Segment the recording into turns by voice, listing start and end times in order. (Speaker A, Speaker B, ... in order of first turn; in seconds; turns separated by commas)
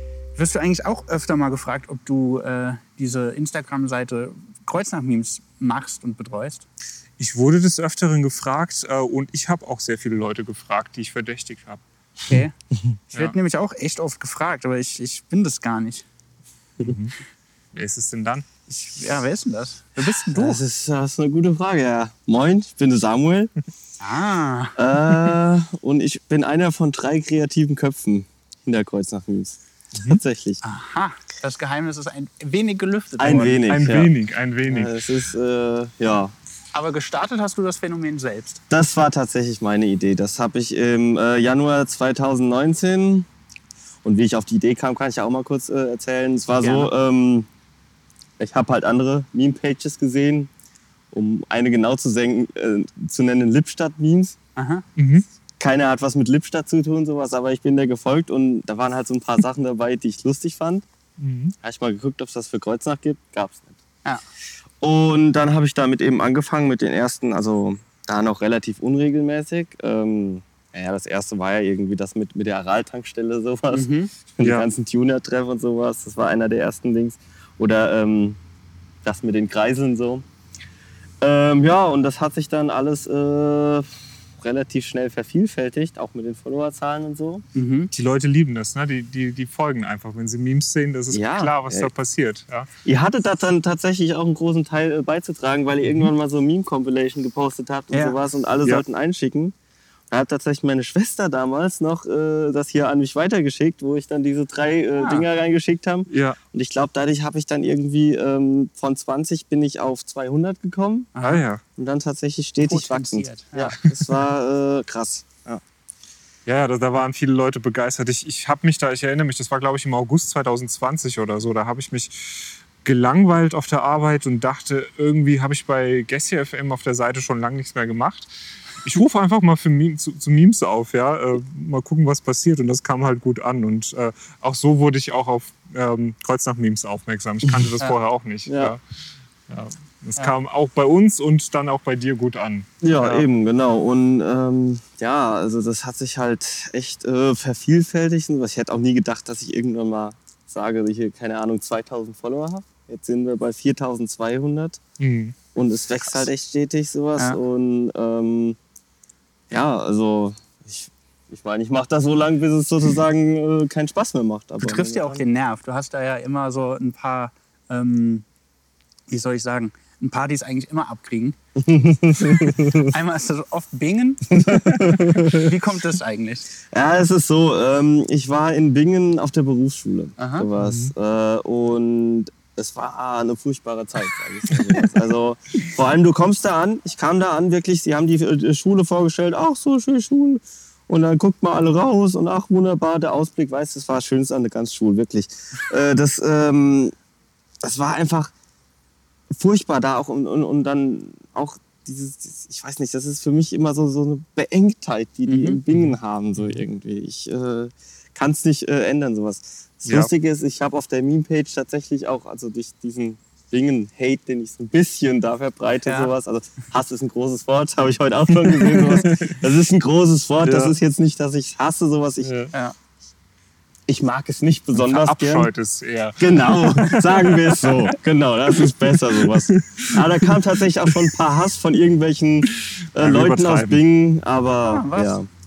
Speaker A: 0.4-6.7, Speaker B: 7.2-11.8, Speaker A: 12.3-12.5, Speaker A: 13.1-16.1, Speaker B: 16.8-17.1, Speaker B: 17.7-18.5, Speaker A: 18.7-20.6, Speaker C: 20.3-23.5, Speaker A: 24.0-24.8, Speaker C: 24.8-30.6, Speaker A: 30.6-33.6, Speaker C: 33.2-34.1, Speaker B: 33.7-34.9, Speaker C: 34.6-36.3, Speaker A: 36.7-38.6, Speaker C: 38.7-43.3, Speaker C: 44.0-47.5, Speaker A: 46.6-46.9, Speaker C: 48.4-50.5, Speaker C: 51.1-54.4, Speaker A: 54.5-54.8, Speaker B: 55.0-55.3, Speaker C: 55.6-60.8, Speaker B: 61.2-61.5, Speaker C: 61.6-63.8, Speaker C: 64.8-78.4, Speaker A: 73.7-74.1, Speaker B: 74.4-74.7, Speaker C: 79.0-80.2, Speaker C: 81.2-87.4, Speaker A: 87.5-87.9, Speaker B: 87.9-92.7, Speaker C: 91.1-91.9, Speaker C: 92.8-99.5, Speaker A: 97.9-98.2, Speaker C: 100.1-111.1, Speaker A: 105.0-105.2, Speaker B: 106.1-106.4, Speaker A: 111.2-111.4, Speaker B: 111.2-111.6, Speaker C: 111.8-115.6, Speaker A: 112.6-113.8, Speaker B: 116.5-143.3, Speaker C: 138.5-138.7, Speaker C: 142.8-154.8, Speaker B: 155.0-155.3, Speaker C: 155.5-158.6, Speaker C: 159.5-165.2, Speaker A: 164.6-168.2, Speaker A: 169.1-171.3, Speaker C: 171.6-172.9, Speaker A: 172.9-176.5, Speaker C: 174.3-175.5, Speaker C: 176.7-196.9, Speaker A: 180.2-180.5, Speaker B: 180.6-180.9, Speaker C: 197.6-198.3, Speaker C: 199.3-222.3, Speaker A: 205.3-205.6, Speaker B: 205.7-206.6, Speaker B: 209.9-210.1, Speaker A: 215.8-216.1, Speaker B: 218.4-219.3, Speaker B: 220.4-220.8, Speaker B: 222.2-222.5, Speaker C: 223.9-225.5, Speaker B: 224.8-227.9, Speaker C: 226.2-235.2, Speaker B: 228.5-231.2, Speaker B: 232.4-233.8, Speaker A: 234.6-235.2